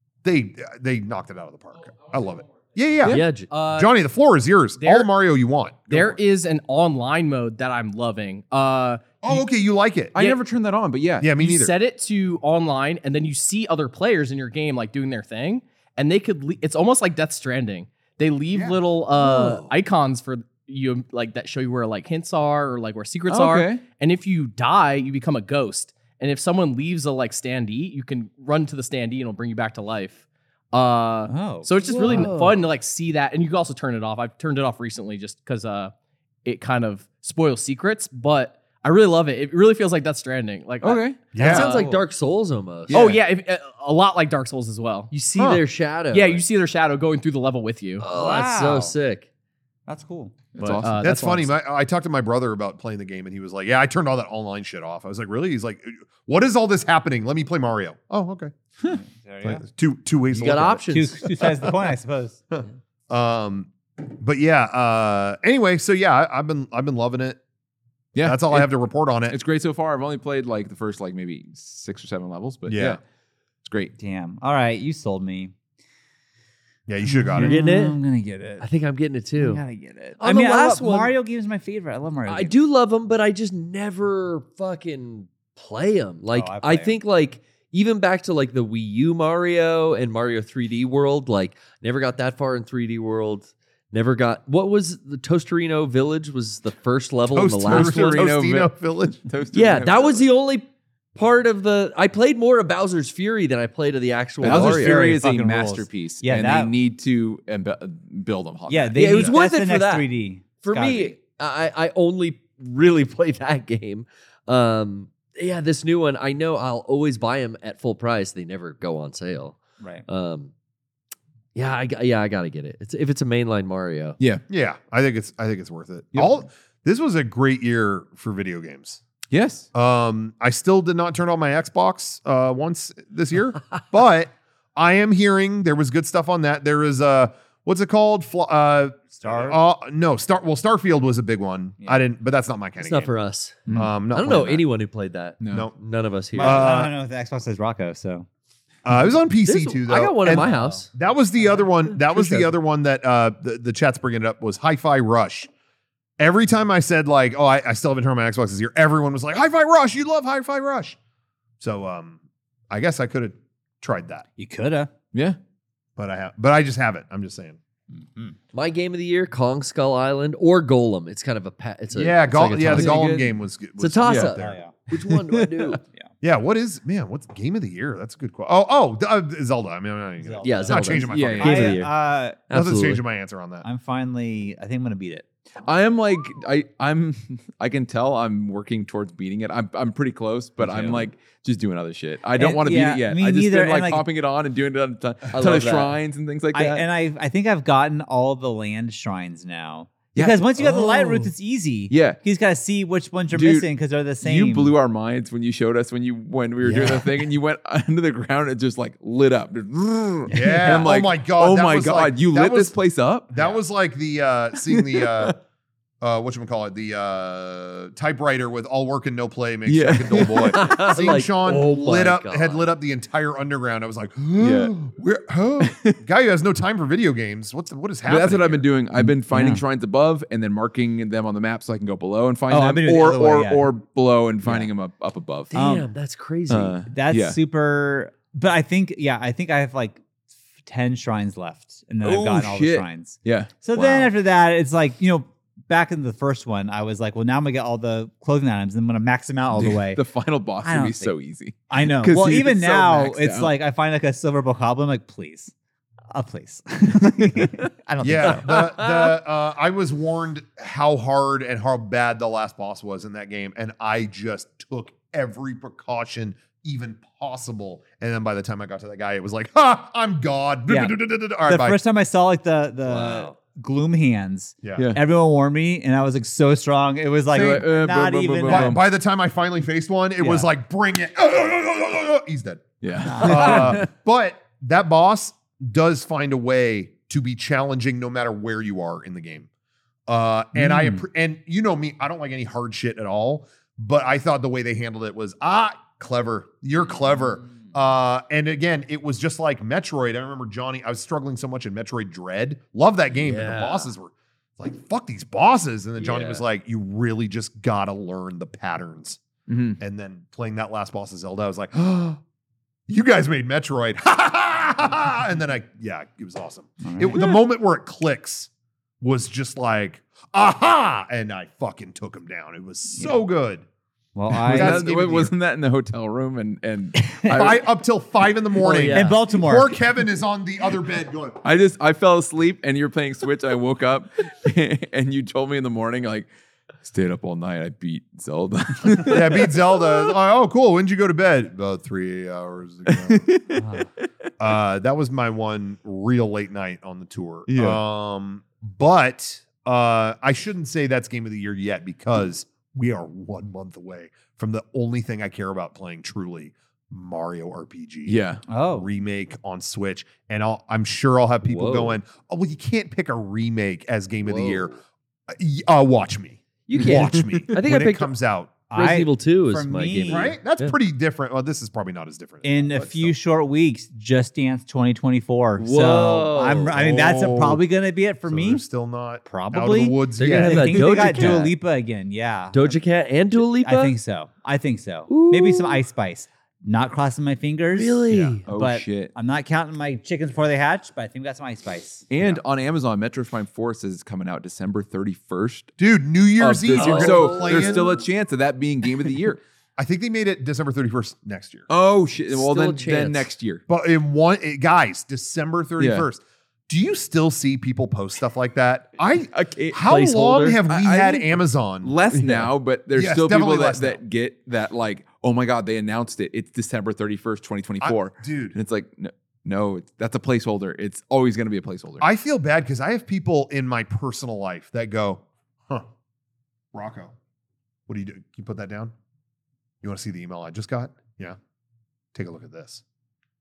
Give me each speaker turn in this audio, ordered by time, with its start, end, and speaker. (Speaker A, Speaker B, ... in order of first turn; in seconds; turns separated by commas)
Speaker A: 0.2-6.2, Speaker B: 3.0-3.5, Speaker C: 3.5-3.9, Speaker C: 4.8-5.1, Speaker C: 5.9-9.2, Speaker A: 9.2-10.2, Speaker D: 10.1-11.3, Speaker A: 11.2-11.7, Speaker C: 11.4-35.9, Speaker A: 18.5-19.5, Speaker D: 23.3-23.8, Speaker E: 31.3-32.3, Speaker B: 31.9-32.6, Speaker C: 36.4-41.9, Speaker D: 40.8-41.2, Speaker A: 41.3-41.8, Speaker E: 41.3-42.0, Speaker B: 41.4-43.1, Speaker D: 42.9-43.2, Speaker C: 42.9-45.1, Speaker B: 45.1-46.4, Speaker A: 45.4-45.6, Speaker C: 46.1-48.1, Speaker B: 48.0-49.3, Speaker E: 48.1-48.9, Speaker E: 49.9-50.4, Speaker D: 50.6-51.0, Speaker C: 50.8-51.5, Speaker A: 51.0-58.5, Speaker E: 58.8-59.6, Speaker A: 59.4-60.9, Speaker B: 60.3-61.4, Speaker E: 60.9-62.4, Speaker A: 62.5-67.4, Speaker D: 68.1-68.7, Speaker A: 68.2-69.3, Speaker D: 69.3-73.0, Speaker A: 72.7-73.0, Speaker D: 73.6-73.9, Speaker E: 74.0-75.5, Speaker A: 76.9-77.6, Speaker E: 77.0-78.7, Speaker B: 77.4-78.0, Speaker B: 78.6-79.6, Speaker E: 79.4-82.5, Speaker B: 80.2-81.1, Speaker B: 82.2-98.2, Speaker E: 86.3-86.9, Speaker A: 97.3-99.2, Speaker D: 97.6-100.2, Speaker B: 99.5-105.0, Speaker E: 104.4-106.7, Speaker D: 104.4-109.3, Speaker E: 108.7-111.1, Speaker B: 108.9-110.1, Speaker B: 110.6-120.5, Speaker B: 121.5-124.2, Speaker A: 124.5-129.0, Speaker D: 129.3-129.7, Speaker A: 129.7-143.1, Speaker E: 139.2-139.6, Speaker B: 142.8-146.8, Speaker A: 143.7-144.6, Speaker D: 145.4-145.7, Speaker A: 145.4-145.8, Speaker E: 146.4-148.2, Speaker A: 146.4-146.9, Speaker A: 148.8-155.5, Speaker B: 149.4-150.9, Speaker E: 150.3-150.8, Speaker B: 151.6-152.5, Speaker A: 156.2-161.0, Speaker A: 161.6-162.2, Speaker A: 162.7-164.2, Speaker E: 164.4-164.9, Speaker D: 165.1-165.4, Speaker A: 166.0-167.6, Speaker E: 167.9-168.3, Speaker B: 168.5-173.0, Speaker A: 171.9-174.6, Speaker D: 172.7-173.4, Speaker B: 173.8-175.8, Speaker D: 174.0-174.3, Speaker E: 174.4-174.7, Speaker D: 175.0-175.7, Speaker A: 176.2-181.6, Speaker E: 180.2-182.4, Speaker B: 180.4-181.9, Speaker D: 181.1-181.7, Speaker B: 182.5-183.0, Speaker A: 182.5-183.6, Speaker E: 183.6-185.2, Speaker D: 185.6-196.8, Speaker A: 190.7-191.0, Speaker E: 192.4-194.1, Speaker B: 195.3-195.9, Speaker E: 196.5-204.7, Speaker D: 200.1-201.3, Speaker D: 201.9-202.2, Speaker D: 203.3-203.7, Speaker D: 204.2-213.3, Speaker B: 206.6-207.1, Speaker A: 210.3-212.8, Speaker E: 210.3-210.8, Speaker A: 213.3-215.4, Speaker D: 214.7-215.3, Speaker A: 216.0-228.7, Speaker D: 219.7-220.7, Speaker B: 220.3-222.6, Speaker D: 224.4-224.8, Speaker D: 225.6-226.0, Speaker D: 228.0-235.5, Speaker E: 228.9-229.6, Speaker E: 232.5-233.7, Speaker E: 234.4-234.7, Speaker B: 235.5-236.8, Speaker E: 235.5-235.9, Speaker D: 236.5-237.4, Speaker E: 236.8-240.0, Speaker E: 240.6-250.0, Speaker D: 242.0-244.0, Speaker D: 249.5-253.5, Speaker E: 250.6-251.1, Speaker E: 251.7-255.5, Speaker E: 256.1-258.6, Speaker D: 257.2-257.7, Speaker A: 258.0-271.8, Speaker B: 258.2-259.1, Speaker E: 270.7-278.8, Speaker B: 272.9-273.3, Speaker A: 277.3-277.7, Speaker D: 277.3-278.8, Speaker A: 278.4-289.5, Speaker E: 280.2-280.5, Speaker D: 282.8-283.9, Speaker E: 283.0-283.8, Speaker A: 290.1-309.2, Speaker E: 290.5-291.0, Speaker B: 303.2-303.9, Speaker B: 306.0-306.4, Speaker D: 309.5-309.8, Speaker A: 309.8-312.2, Speaker A: 312.9-318.5, Speaker E: 316.8-317.2, Speaker A: 319.0-323.6, Speaker E: 324.1-324.9, Speaker A: 324.3-325.3, Speaker D: 324.4-327.6, Speaker E: 327.0-327.5, Speaker A: 327.3-331.4, Speaker B: 328.6-329.2, Speaker E: 328.9-329.8, Speaker D: 331.4-336.3, Speaker D: 336.8-339.8, Speaker A: 339.0-343.2, Speaker D: 342.9-343.9, Speaker E: 343.5-343.9, Speaker A: 344.4-364.7, Speaker D: 347.5-347.8, Speaker D: 358.1-358.4, Speaker E: 358.5-358.9, Speaker B: 361.4-362.0, Speaker B: 364.2-364.8, Speaker A: 365.3-368.5, Speaker B: 366.7-368.1, Speaker D: 366.8-367.0, Speaker E: 368.7-370.3, Speaker B: 368.7-370.7, Speaker A: 370.1-373.1, Speaker E: 372.4-378.6, Speaker B: 375.6-376.9, Speaker A: 376.7-377.6, Speaker A: 378.2-381.4, Speaker E: 379.2-382.7, Speaker B: 380.2-381.5, Speaker B: 382.5-383.9, Speaker E: 383.6-392.1, Speaker B: 385.1-385.8, Speaker B: 387.8-388.4, Speaker A: 388.1-388.4, Speaker D: 388.5-389.1, Speaker D: 392.1-395.7, Speaker A: 395.8-397.9, Speaker D: 396.4-399.4, Speaker B: 396.7-397.9, Speaker A: 399.8-401.7, Speaker D: 401.7-403.6, Speaker B: 402.3-403.3, Speaker A: 403.7-411.9, Speaker D: 405.8-406.1, Speaker D: 409.3-410.0, Speaker B: 409.8-410.6, Speaker D: 410.6-422.1, Speaker A: 412.9-414.0, Speaker A: 417.8-418.6, Speaker A: 422.0-425.9, Speaker A: 426.7-427.1, Speaker A: 427.9-428.9, Speaker A: 429.8-431.4, Speaker A: 432.1-432.8